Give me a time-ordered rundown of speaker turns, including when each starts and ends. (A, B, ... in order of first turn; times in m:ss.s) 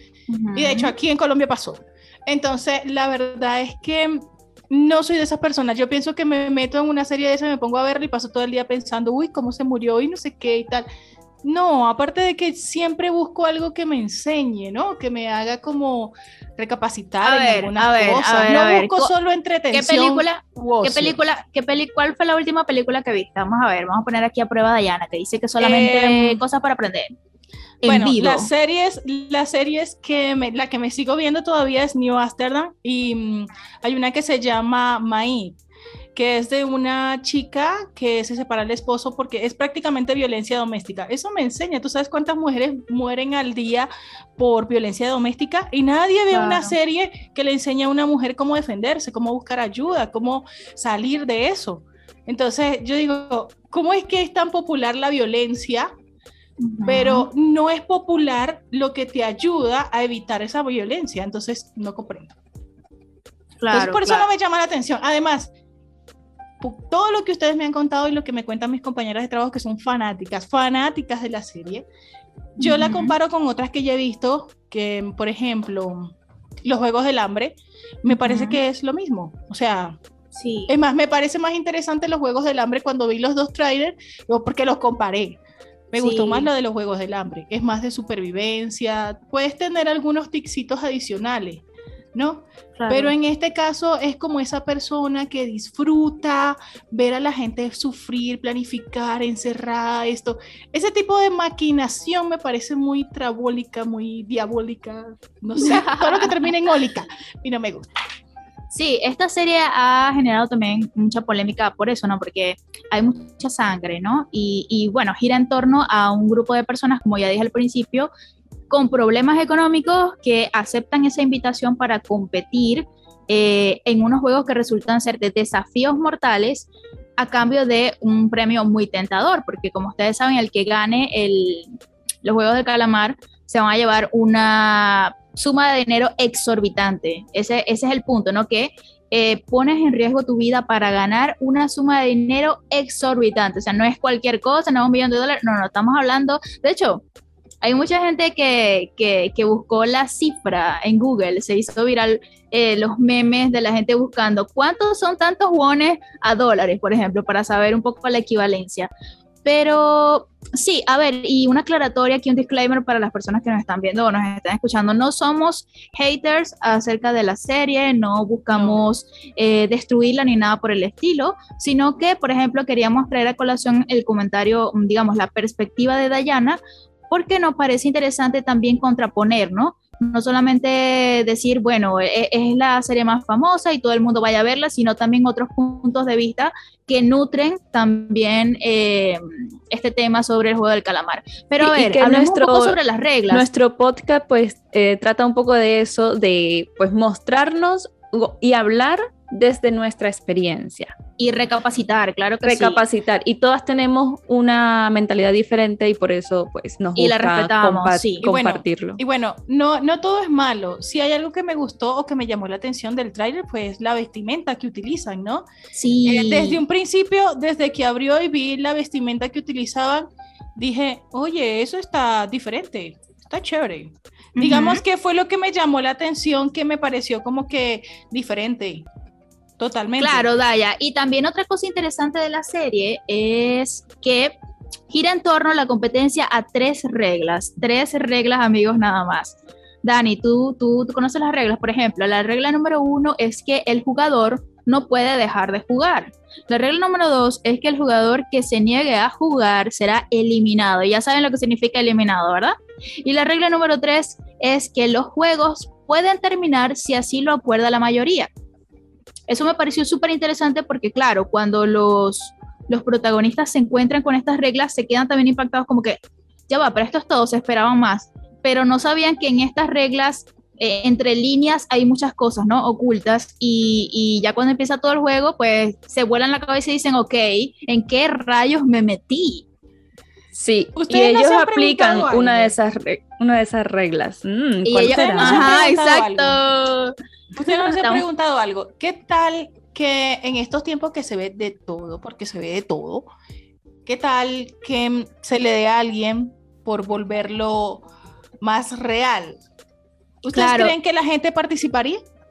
0:00.3-0:00.9 A
0:00.6-0:10.9 B
0:11.4-0:21.2 B
0:17.2-0:19.1 A
0:19.7-0:27.2 A
0:25.6-0:26.4 B
0:27.8-0:28.5 A
0:27.8-0:35.6 B
0:36.1-0:55.9 B
0:46.3-0:46.8 A
0:56.6-0:57.3 A
0:56.8-1:02.4 B
1:03.6-1:04.3 A
1:03.7-1:05.5 B
1:06.6-1:11.9 B
1:12.6-1:20.0 B
1:12.6-1:13.2 A
1:18.1-1:18.6 A
1:20.4-1:20.7 A
1:20.7-1:25.4 B
1:25.9-1:47.9 B
1:26.0-1:26.5 A
1:32.8-1:33.2 A
1:45.6-1:46.3 A
1:48.7-1:58.1 A
1:58.7-2:27.0 A
2:27.6-2:38.9 A
2:39.4-3:13.5 A
2:48.5-2:48.8 B
3:11.6-3:12.8 C
3:13.3-3:20.9 C
3:21.2-3:22.8 A
3:22.4-3:29.0 C
3:27.0-3:28.2 A
3:28.2-3:35.5 B
3:35.7-3:36.6 A
3:36.0-3:48.9 B
3:44.4-3:44.8 A
3:49.6-3:50.3 B
3:50.0-3:54.4 A
3:54.9-4:18.3 A
4:19.3-4:39.4 A
4:40.3-4:45.6 C
4:40.8-4:42.6 B
4:44.7-4:47.0 A
4:44.9-4:46.4 B
4:47.3-4:53.1 B
4:47.5-4:48.1 A
4:53.9-4:57.9 B
4:58.4-4:59.4 B
5:00.2-5:02.0 B
5:00.3-5:00.8 A